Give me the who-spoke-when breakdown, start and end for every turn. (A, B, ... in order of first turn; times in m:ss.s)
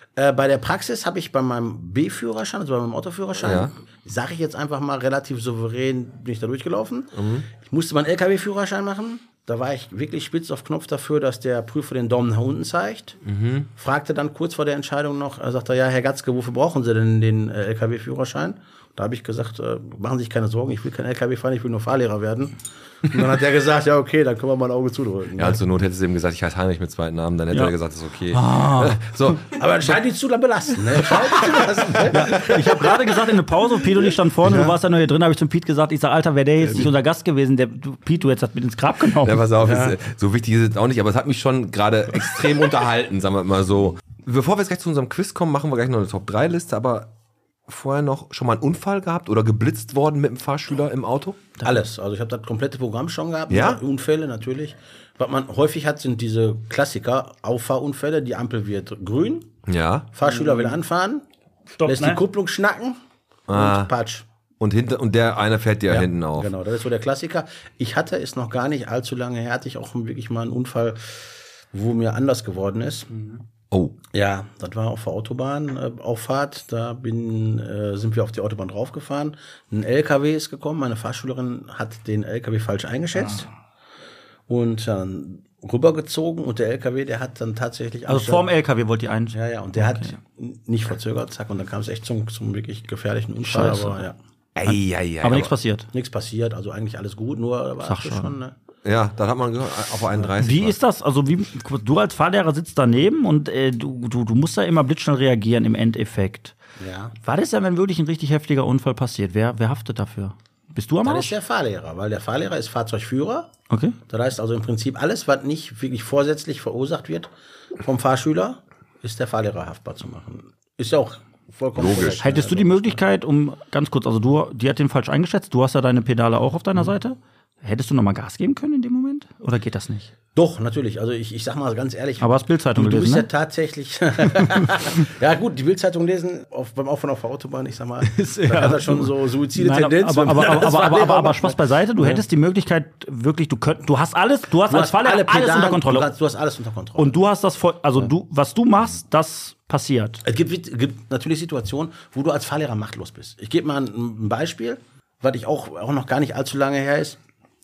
0:00.2-0:13.2 A
0:03.4-0:03.7 B
0:07.2-0:07.5 B
0:13.2-0:13.7 B
0:13.8-0:25.6 A
0:25.4-0:29.6 B
0:28.3-0:29.0 C
0:29.5-0:33.0 A
0:31.1-0:31.6 B
0:32.1-0:39.4 C
0:34.0-0:34.7 A
0:39.2-0:47.1 B
0:39.6-0:39.9 A
0:47.7-0:51.5 B
0:51.6-0:59.5 A
0:53.5-0:53.8 B
0:59.7-1:00.1 B
1:00.1-1:01.2 A
1:00.2-1:00.8 C
1:01.8-1:02.2 C
1:01.8-1:03.0 A
1:03.5-1:03.9 B
1:03.5-1:04.3 A
1:04.6-1:06.5 B
1:05.9-1:11.2 A
1:11.7-1:13.2 A
1:13.7-1:14.0 B
1:14.1-1:23.5 A
1:24.5-1:28.5 A
1:28.1-1:30.2 C
1:29.3-1:34.2 A
1:33.4-1:34.0 C
1:34.6-1:35.5 B
1:35.2-1:35.9 C
1:35.9-1:38.6 A
1:37.8-1:38.3 C
1:38.8-1:40.8 B
1:40.4-1:46.6 C
1:46.8-1:47.1 A
1:47.2-1:51.4 C
1:51.0-1:53.5 A
1:53.7-1:54.0 C
1:54.1-2:03.0 A
2:01.8-2:02.2 B
2:02.2-2:10.1 C
2:10.4-2:22.2 A
2:12.2-2:13.3 C
2:14.3-2:15.0 C
2:18.0-2:26.1 C
2:24.6-2:27.2 A
2:27.0-2:30.2 C
2:30.2-2:37.2 A